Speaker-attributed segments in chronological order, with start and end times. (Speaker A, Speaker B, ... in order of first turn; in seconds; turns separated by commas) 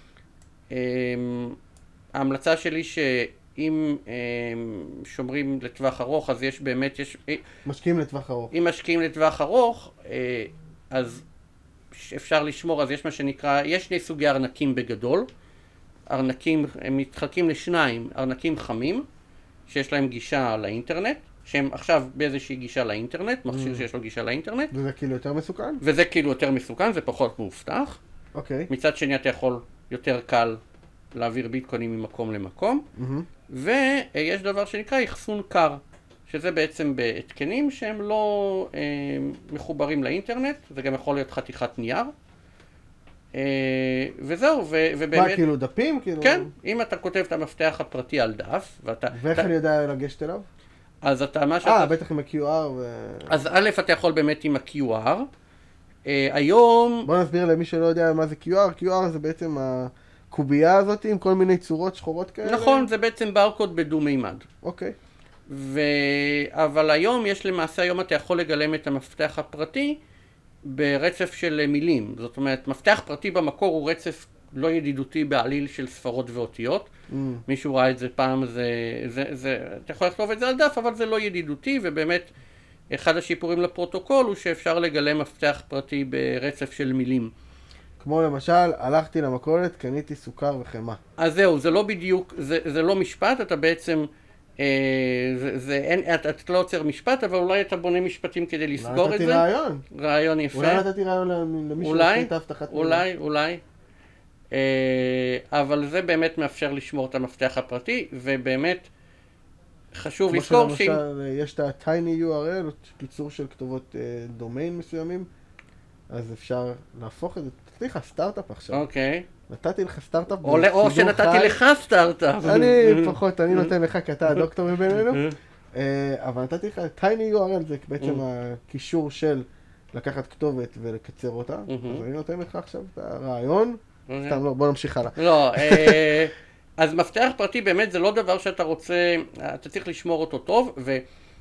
Speaker A: 0.7-1.6, Speaker A: 2.1-7.4, Speaker B: 7.7-8.5, Speaker A: 8.5-11.2, Speaker A: 11.9-15.3, Speaker A: 16.1-19.1, Speaker A: 19.7-24.7, Speaker B: 23.5-23.8, Speaker B: 24.7-25.8, Speaker A: 25.8-28.0, Speaker B: 28.3-28.7, Speaker A: 28.7-30.6, Speaker A: 31.1-32.9, Speaker B: 33.0-33.3, Speaker A: 33.5-42.1, Speaker A: 43.3-45.4, Speaker B: 45.1-46.5, Speaker A: 46.2-49.5, Speaker B: 49.1-50.5, Speaker A: 51.0-51.9, Speaker B: 51.6-53.5, Speaker A: 53.3-55.3, Speaker A: 56.0-57.1, Speaker B: 57.0-62.9, Speaker A: 62.4-64.4, Speaker B: 64.6-65.0, Speaker A: 65.5-70.0, Speaker A: 70.6-76.9, Speaker B: 77.1-77.4, Speaker A: 77.5-82.3, Speaker A: 82.9-87.3, Speaker B: 88.0-91.0, Speaker A: 91.2-94.1, Speaker A: 94.6-100.8, Speaker B: 98.8-99.8, Speaker B: 100.5-103.0, Speaker A: 101.8-103.6, Speaker A: 104.5-108.9, Speaker A: 109.9-111.0, Speaker B: 110.3-115.3, Speaker B: 116.1-118.8, Speaker A: 118.7-119.2, Speaker B: 119.5-121.6, Speaker A: 120.4-123.7, Speaker B: 122.4-136.2, Speaker A: 125.0-125.3, Speaker A: 131.7-132.0, Speaker A: 134.1-134.4, Speaker A: 135.2-141.0